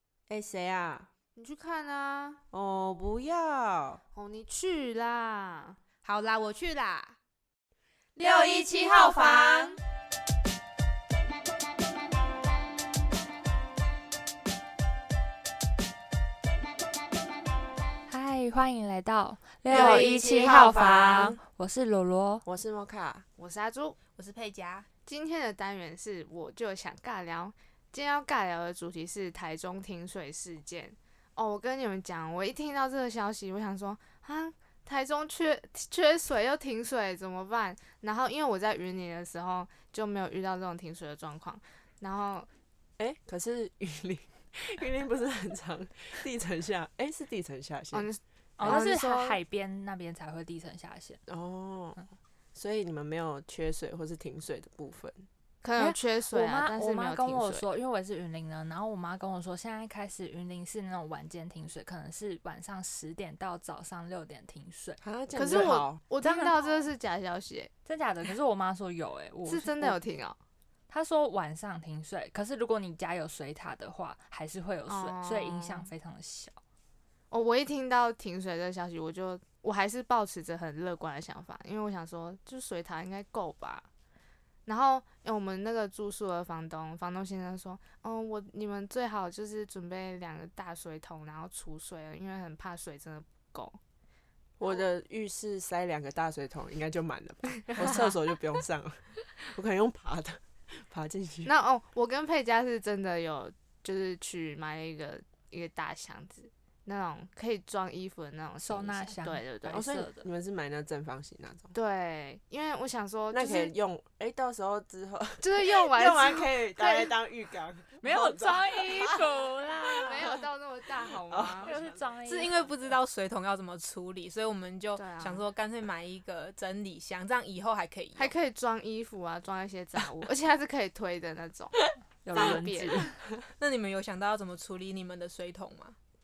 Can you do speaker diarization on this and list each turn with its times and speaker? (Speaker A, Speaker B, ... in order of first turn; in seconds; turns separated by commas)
Speaker A: 0.3-1.1, Speaker B: 1.4-2.4, Speaker A: 2.5-4.0, Speaker B: 4.1-5.8, Speaker C: 6.0-7.2, Speaker A: 8.2-9.8, Speaker C: 8.3-9.5, Speaker B: 8.5-9.6, Speaker D: 18.1-22.4, Speaker A: 19.7-21.4, Speaker B: 19.7-20.1, Speaker A: 22.4-23.3, Speaker B: 23.4-24.0, Speaker C: 24.1-24.9, Speaker B: 25.1-42.5, Speaker A: 43.0-48.1, Speaker B: 47.9-49.4, Speaker D: 48.6-51.2, Speaker A: 51.3-55.2, Speaker B: 55.6-57.6, Speaker D: 55.8-65.0, Speaker A: 65.0-66.0, Speaker B: 65.3-67.7, Speaker D: 66.2-66.9, Speaker D: 67.8-70.0, Speaker B: 69.4-70.4, Speaker D: 70.9-76.6, Speaker B: 74.9-75.9, Speaker B: 77.3-83.9, Speaker B: 84.7-93.8, Speaker A: 94.6-101.5, Speaker B: 97.7-98.1, Speaker B: 101.5-109.8, Speaker D: 108.6-110.2, Speaker A: 109.7-111.7, Speaker B: 111.7-113.7, Speaker A: 113.3-119.2, Speaker B: 115.4-117.1, Speaker D: 118.0-120.3, Speaker B: 120.0-121.7, Speaker A: 121.3-121.7, Speaker D: 121.6-122.7, Speaker C: 122.2-128.3, Speaker B: 125.0-125.4, Speaker B: 128.2-131.8, Speaker D: 132.2-133.2, Speaker B: 132.3-133.0, Speaker C: 133.6-135.9